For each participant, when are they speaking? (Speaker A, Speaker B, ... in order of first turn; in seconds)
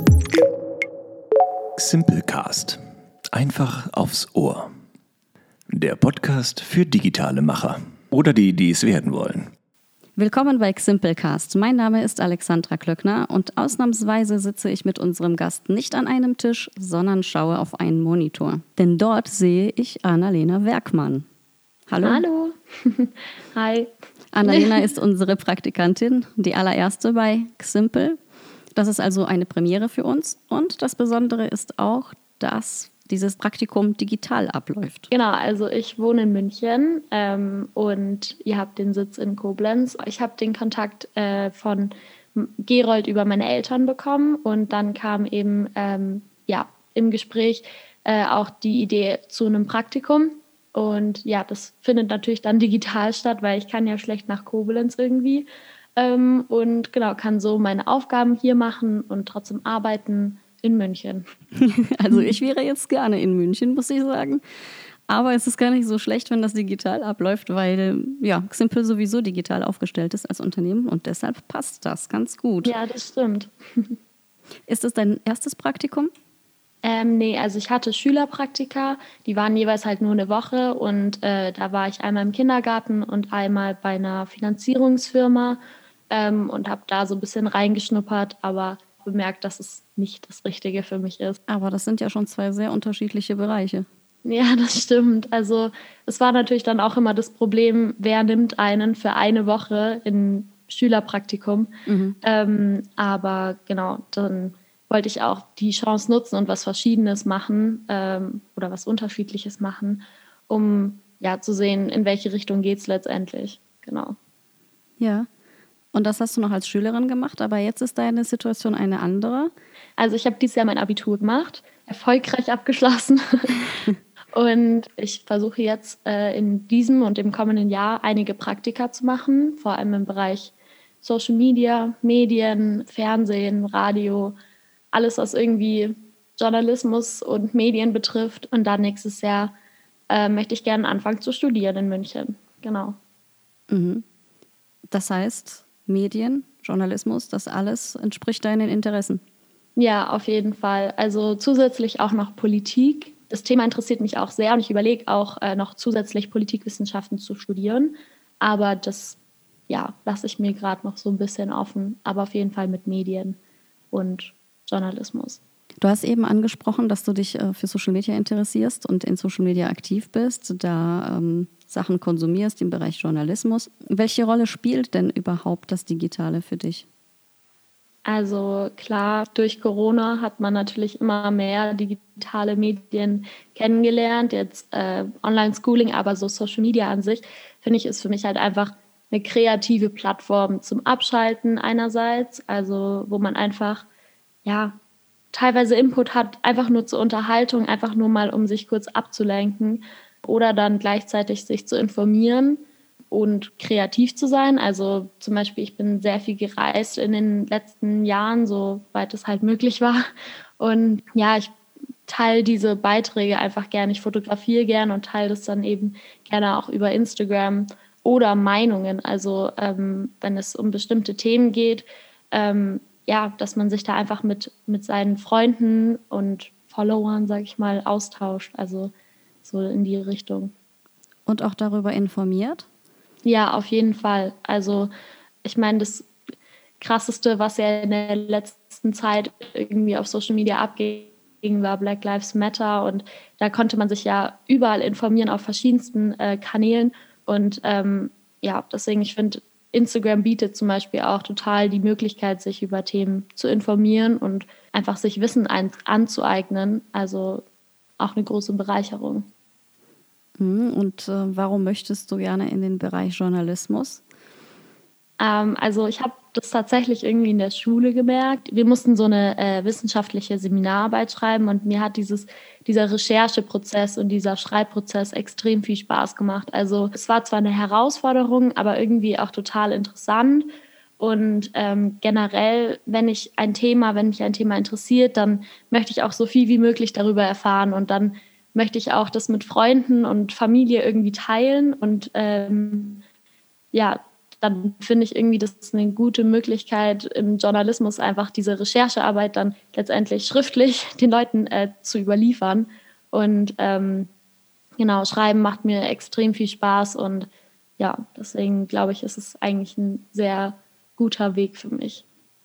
Speaker A: 1.8-2.8, 3.3-4.7, 5.7-9.5
Speaker B: 10.2-21.2, 21.9-22.2, 24.3-28.2, 28.8-35.1, 61.6-64.4, 65.1-72.7, 74.7-76.1, 91.5-93.9, 101.9-102.2, 115.0-115.3, 115.9-119.5, 143.7-144.0, 144.9-149.2, 165.8-176.9, 231.3-232.7, 260.4-264.0
Speaker C: 22.0-23.9, 24.4-24.8, 35.1-61.2, 62.1-62.4, 72.6-74.0, 76.8-85.6, 86.1-91.4, 94.2-101.7, 102.2-114.2, 120.0-123.5, 124.3-134.3, 134.9-139.5, 140.1-143.0, 149.8-159.2, 159.7-163.4, 163.9-165.4, 178.1-193.9, 194.4-194.8, 195.3-210.1, 210.6-211.5, 212.1-228.9, 229.4-230.5, 233.2-234.9, 235.4-236.1, 236.8-257.4, 258.0-259.3, 265.2-280.5, 281.0-293.0, 293.7-304.1, 304.8-312.0